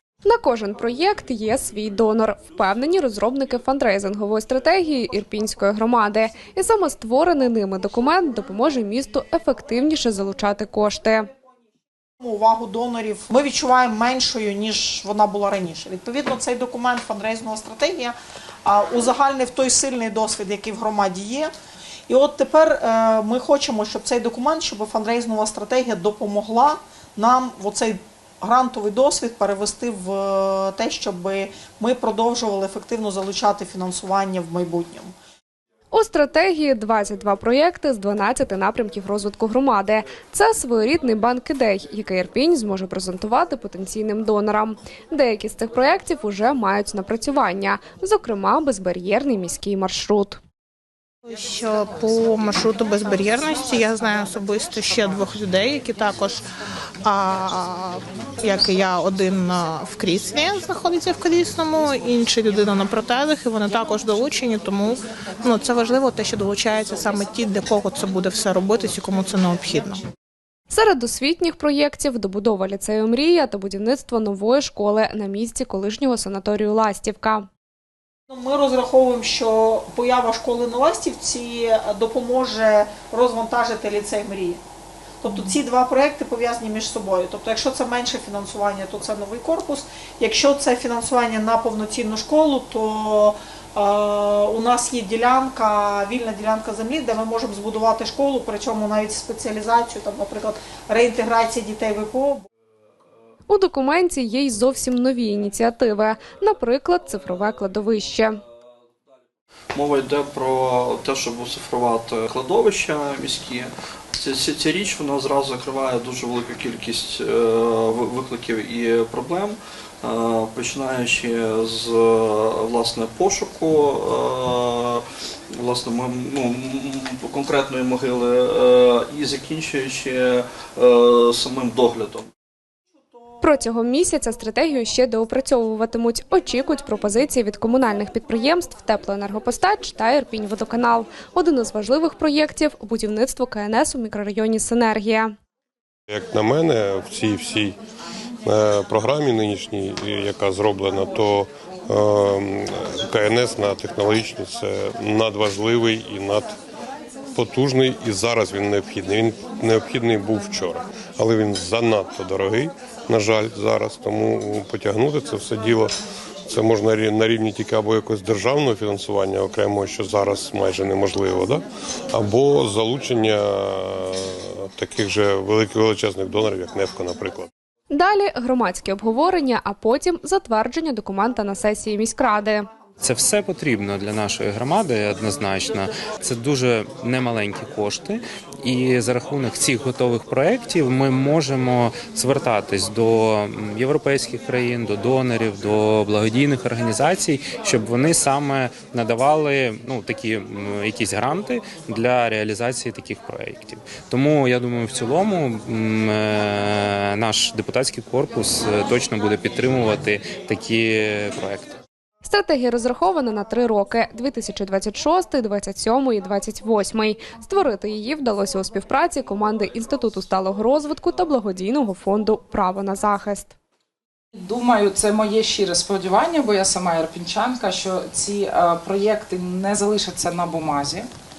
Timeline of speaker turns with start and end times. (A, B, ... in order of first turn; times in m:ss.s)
0:00.2-0:11.3 A
0:12.2-0:21.5 B
0:22.1-0:35.1 B
0:35.9-0:50.4 A
0:51.3-0:56.4 C
0:57.0-1:10.0 C
1:10.7-1:17.5 A
1:18.3-1:24.6 B
1:25.2-1:42.4 B
1:43.5-1:48.4 A
1:49.7-2:12.3 D
2:13.4-2:25.3 A
2:26.1-2:27.8 E
2:28.4-2:36.5 E
2:37.4-2:45.9 E
2:46.5-2:57.5 E
2:57.9-3:02.7 A
3:03.0-3:31.8 F
3:32.2-3:43.6 A
3:44.4-3:51.1 G